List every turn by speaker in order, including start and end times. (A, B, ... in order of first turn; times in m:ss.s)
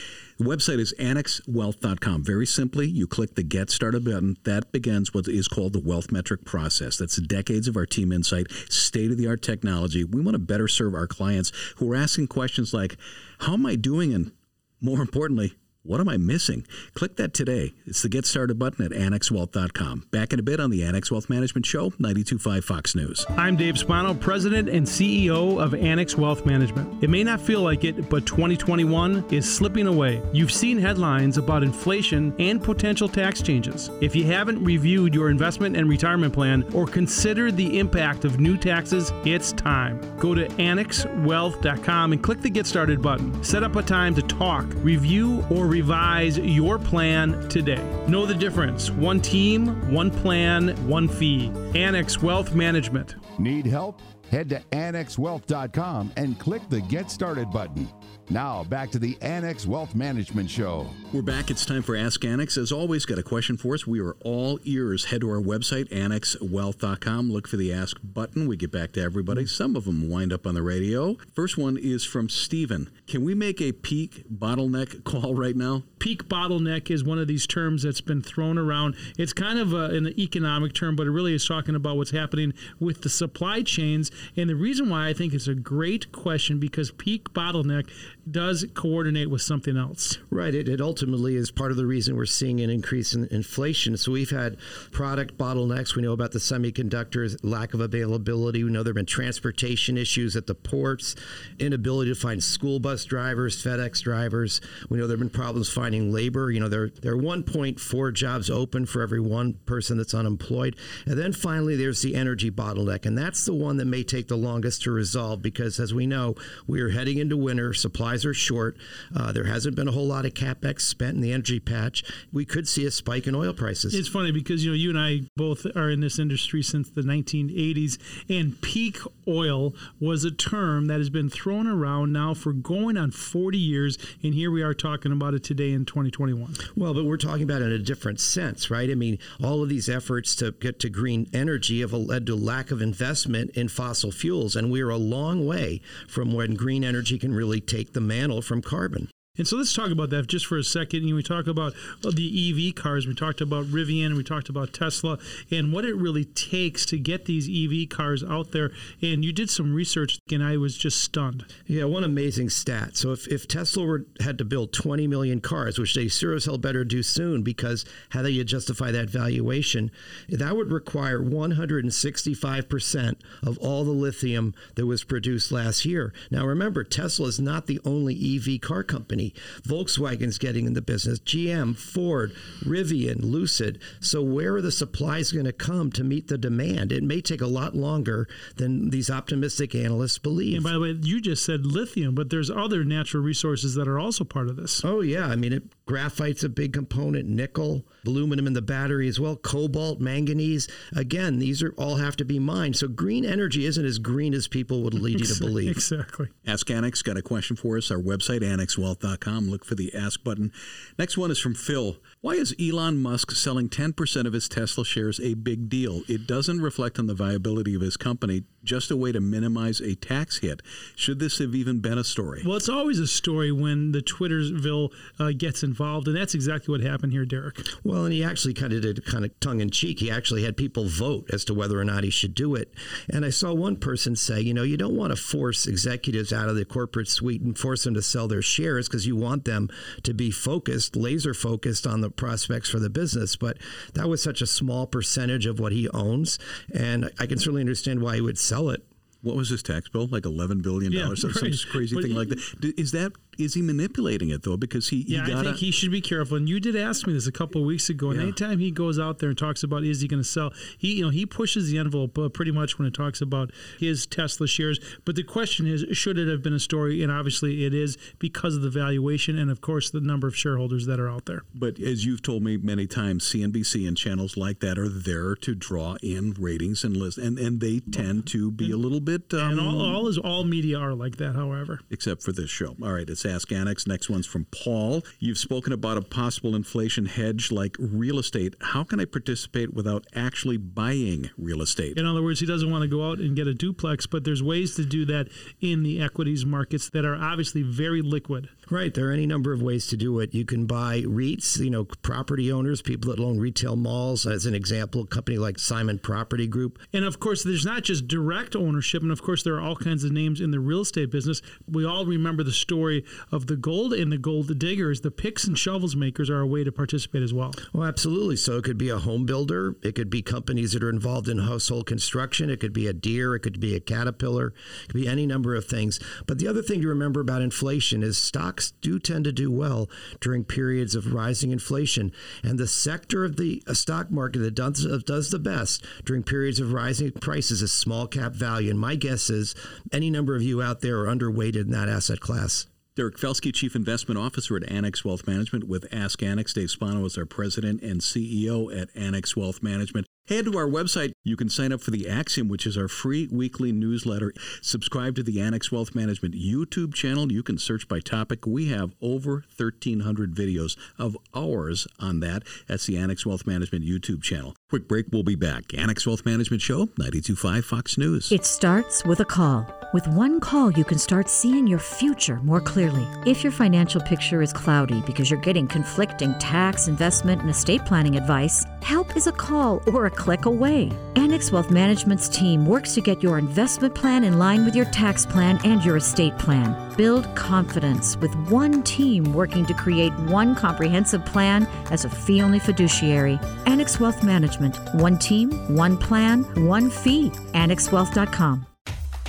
0:00.4-0:23.3 A
0:23.4-0:53.2 B
0:53.4-1:01.0 C
1:01.1-1:15.9 A
1:16.0-1:30.2 B
1:30.3-2:04.0 D
2:03.9-2:16.6 B
2:16.7-2:29.1 D
2:29.4-2:41.5 B
2:41.7-3:10.7 D
3:10.5-3:14.8 B
3:14.8-3:25.8 D
3:25.0-3:26.3 B
3:26.4-3:42.4 A
3:42.4-3:47.7 B
3:47.7-4:08.8 D
4:09.2-4:15.6 A
4:10.9-4:12.3 B
4:15.1-4:31.4 B
4:18.1-4:18.4 A
4:31.5-4:40.0 A
4:39.4-4:41.8 B
4:41.9-4:52.0 A
4:51.9-4:58.5 B
4:58.7-5:06.8 D
5:06.9-5:17.6 B
5:17.7-5:42.7 D
5:42.9-6:08.3 A
6:08.3-6:38.6 E